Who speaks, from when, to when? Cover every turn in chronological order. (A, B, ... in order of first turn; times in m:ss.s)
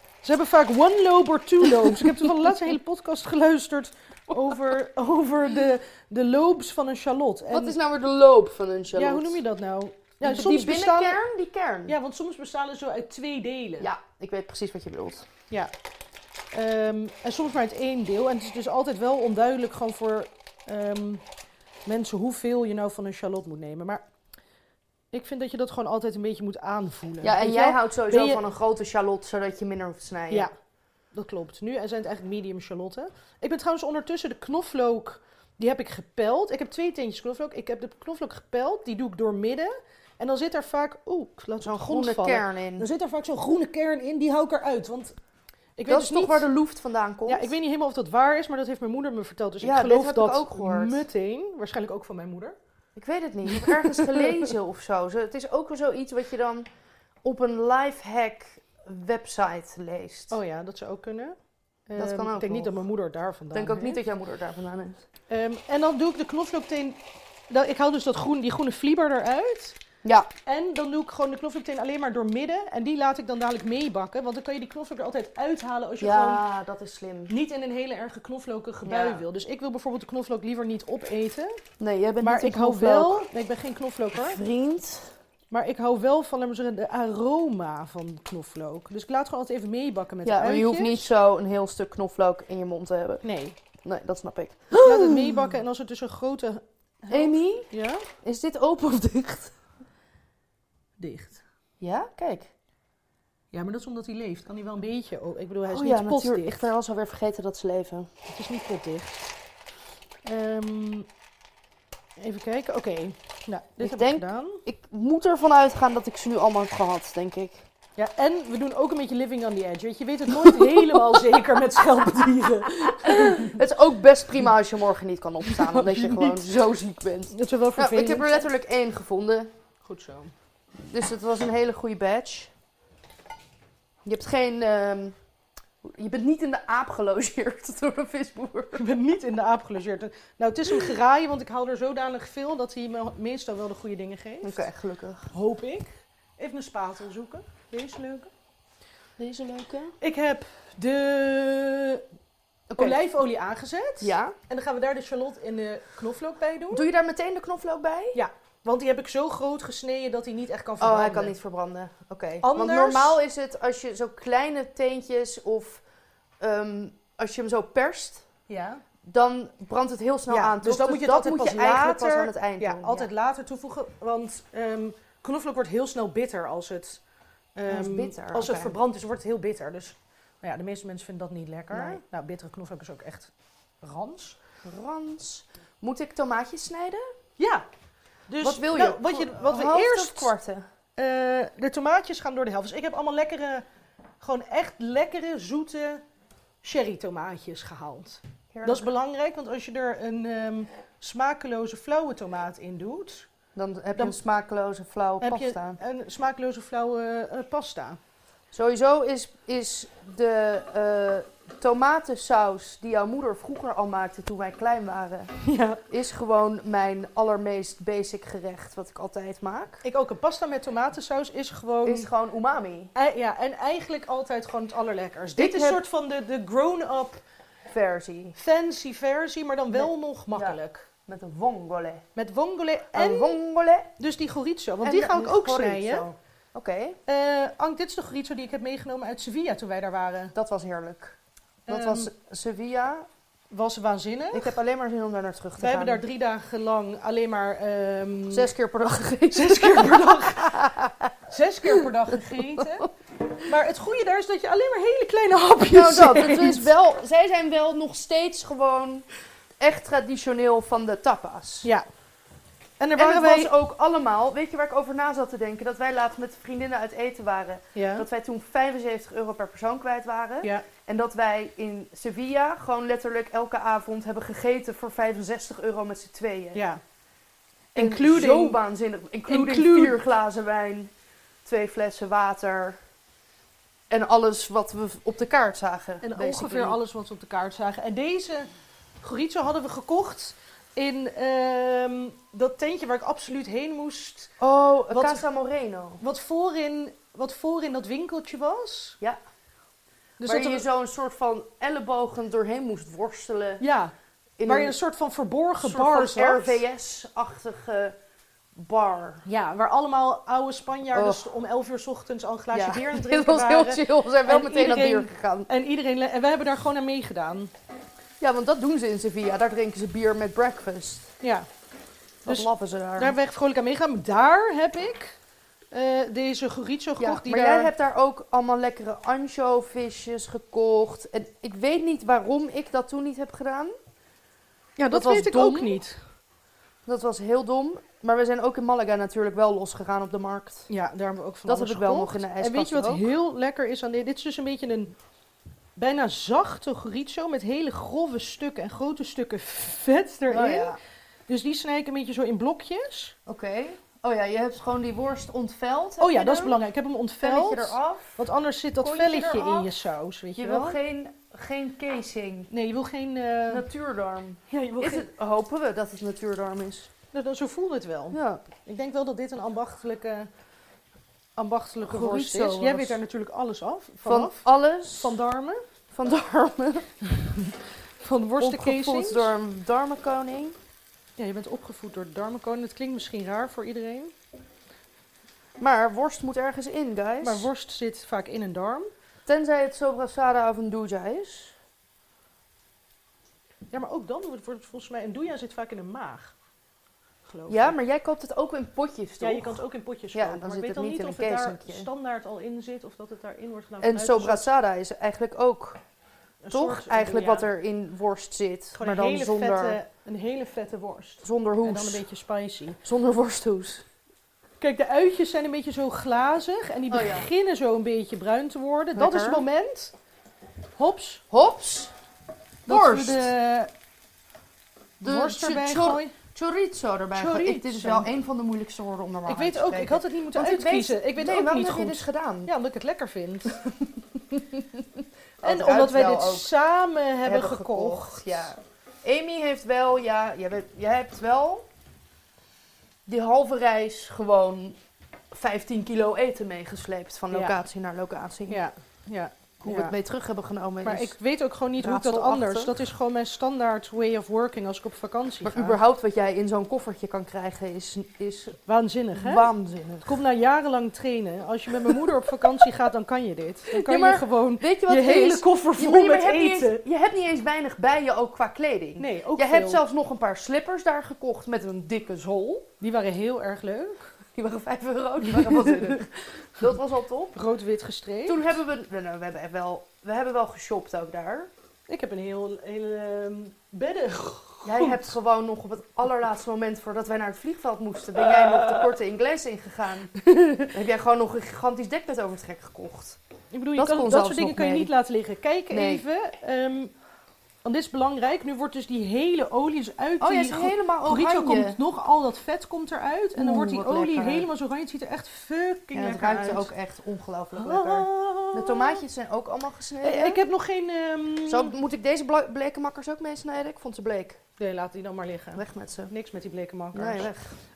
0:00.2-0:07.8 A
0:01.8-0:02.0 B
0:07.5-0:09.4 B
0:08.9-0:11.2 A
0:10.2-0:12.0 B
0:11.9-0:13.9 A
0:13.8-0:15.3 B
0:16.5-0:21.2 A
0:21.8-0:24.0 A
0:25.1-0:28.4 A
0:27.2-0:30.5 B
0:31.1-0:45.1 A
0:41.6-0:42.9 B
0:45.8-0:46.4 A
0:45.8-0:47.5 B
0:47.3-0:52.6 A
0:49.6-0:51.0 B
0:53.0-0:56.7 B
0:53.5-0:54.2 A
0:57.2-1:00.4 B
1:00.3-1:01.4 A
1:01.9-1:04.0 A
1:02.0-1:02.8 B
1:03.5-1:05.1 B
1:05.3-1:09.8 A
1:10.4-1:16.4 A
1:16.0-1:17.3 B
1:17.3-1:21.6 A
1:18.8-1:19.2 B
1:21.8-1:23.3 B
1:22.2-1:24.4 A
1:24.1-1:25.1 B
1:25.5-1:31.1 A
1:30.2-1:33.2 B
1:33.2-1:33.6 A
1:33.8-1:35.5 B
1:34.7-1:38.0 A
1:37.1-1:37.7 B
1:38.2-1:39.5 B
1:41.0-1:41.4 A
1:41.8-1:42.5 B
1:43.5-1:46.7 A
1:45.6-1:48.1 B
1:48.3-1:49.2 A
1:50.2-1:51.1 A
1:52.2-1:54.6 A
1:53.8-1:57.6 B
1:58.0-2:03.6 A
2:00.3-2:01.8 B
2:02.7-2:09.5 B
2:05.5-2:06.5 A
2:07.3-2:08.4 A
2:09.8-2:10.3 A
2:10.8-2:12.5 B
2:14.0-2:15.2 B
2:15.8-2:18.8 B
2:18.7-2:24.6 A
2:24.4-2:25.3 B
2:25.3-2:28.3 A
2:29.2-2:29.9 B
2:30.0-2:32.0 A
2:32.7-2:33.0 B
2:32.8-2:36.9 A
2:34.0-2:34.3 B
2:36.7-2:38.2 B
2:38.1-2:41.4 A
2:40.8-2:45.8 B
2:42.4-2:43.2 A
2:46.4-2:48.2 B
2:48.5-2:48.8 A
2:49.0-2:53.1 B
2:50.3-2:57.0 A
2:57.6-3:03.3 A
2:57.7-2:58.8 B
3:01.7-3:02.0 B
3:03.8-3:04.4 A
3:04.6-3:07.0 B
3:07.4-3:07.6 A
3:08.3-3:10.3 A
3:08.4-3:10.7 B
3:11.0-3:13.6 A
3:14.2-3:16.0 A
3:16.6-3:23.3 A
3:18.5-3:18.9 B
3:23.5-3:25.8 B
3:25.2-3:28.0 A
3:28.5-3:35.3 B
3:35.4-3:35.8 A
3:35.9-3:39.8 B
3:39.8-3:42.1 A
3:41.8-3:42.9 B
3:42.9-3:47.2 A
3:45.4-3:45.8 B
3:47.7-3:48.4 B
3:48.4-3:50.8 A
3:49.7-3:52.0 B
3:52.1-3:53.4 A
3:52.9-3:53.9 B
3:54.0-3:56.1 A
3:54.8-3:57.0 B
3:57.1-4:00.3 A
4:00.3-4:01.2 B
4:01.7-4:02.1 A
4:01.7-4:03.1 B
4:03.5-4:04.5 A
4:04.3-4:06.0 B
4:05.6-4:08.5 A
4:08.3-4:11.1 B
4:09.3-4:12.9 A
4:11.6-4:12.9 B
4:13.4-4:16.7 A
4:15.6-4:19.1 B
4:19.6-4:21.7 B
4:22.8-4:23.5 A
4:23.0-4:36.6 B
4:27.7-4:28.1 A
4:30.4-4:30.7 A
4:36.5-4:36.8 A
4:37.7-4:38.6 A
4:37.8-4:40.9 B
4:39.3-4:40.0 A
4:41.4-4:42.8 B
4:43.9-4:46.8 B
4:46.0-4:48.5 A
4:49.0-4:54.4 A
4:54.4-4:56.0 B
4:54.9-4:55.2 A
4:56.0-4:59.0 A
5:00.2-5:00.6 A
5:00.2-5:03.6 B
5:03.6-5:03.9 A
5:04.4-5:04.7 B
5:04.4-5:06.6 A
5:05.6-5:08.0 B
5:08.5-5:09.2 B
5:09.2-5:17.5 A
5:10.9-5:11.2 B
5:12.5-5:15.5 B
5:18.2-5:21.1 B
5:21.2-5:21.5 A
5:22.2-5:23.2 B
5:22.2-5:25.2 A
5:25.7-5:27.7 A
5:27.0-5:33.7 B
5:34.8-5:36.0 A
5:34.9-5:35.8 B
5:36.8-5:40.7 B
5:40.7-5:45.0 A
5:41.4-5:43.1 B
5:45.8-5:50.7 A
5:50.3-5:50.8 B
5:51.3-5:53.2 A
5:53.2-5:56.6 B
5:56.0-6:00.8 A
5:57.2-5:58.2 B
5:58.8-5:59.7 B
6:00.4-6:02.5 B
6:02.5-6:03.6 A
6:03.5-6:06.9 B
6:04.5-6:05.0 A
6:07.1-6:10.3 A
6:08.1-6:08.4 B
6:11.4-6:15.6 A
6:11.9-6:13.0 B
6:14.0-6:15.2 B
6:15.9-6:16.9 B
6:17.1-6:19.3 A
6:18.4-6:20.6 B
6:21.2-6:24.1 A
6:25.6-6:27.5 B
6:27.2-6:28.9 A
6:29.2-6:31.6 B
6:33.7-6:36.3 A
6:37.2-6:37.8 A
6:37.5-6:39.6 B
6:39.2-6:44.5 A
6:40.1-6:41.9 B
6:43.8-6:45.8 B
6:46.4-6:47.5 A
6:46.5-6:49.8 B
6:48.7-6:52.8 A
6:51.2-6:52.0 B
6:52.8-6:53.8 B
6:54.6-6:59.9 A
6:56.9-6:57.3 B
6:59.0-6:59.4 B
7:00.8-7:01.2 A
7:01.3-7:01.9 B
7:02.6-7:03.3 B
7:02.7-7:03.7 A
7:05.0-7:12.5 B
7:05.0-7:06.1 A
7:07.1-7:08.1 A
7:09.3-7:13.6 A
7:14.3-7:16.5 B
7:15.4-7:18.5 A
7:17.2-7:21.7 B
7:23.1-7:24.8 B
7:25.3-7:28.6 B
7:27.3-7:27.6 A
7:28.5-7:29.9 A
7:29.6-7:31.2 B
7:30.8-7:35.8 A
7:31.8-7:32.7 B
7:35.4-7:38.6 B
7:38.6-7:39.5 A
7:39.1-7:40.1 B
7:40.0-7:46.8 A
7:41.9-7:42.6 B
7:43.7-7:52.7 B
7:49.0-7:49.8 A
7:52.8-7:54.1 A
7:54.3-7:57.4 B
7:55.3-7:56.0 A
7:57.3-7:58.5 A
7:58.2-8:01.5 B
8:01.9-8:05.1 A
8:04.6-8:13.2 B
8:10.4-8:10.6 A
8:13.5-8:16.9 A
8:13.8-8:14.9 B
8:15.7-8:16.0 B
8:17.6-8:26.7 A
8:20.2-8:21.8 B
8:23.4-8:24.5 B
8:25.9-8:30.4 B
8:27.6-8:29.0 A
8:30.0-8:31.7 A
8:31.4-8:34.4 B
8:34.6-8:37.3 A
8:35.5-8:36.1 B
8:36.9-8:37.6 B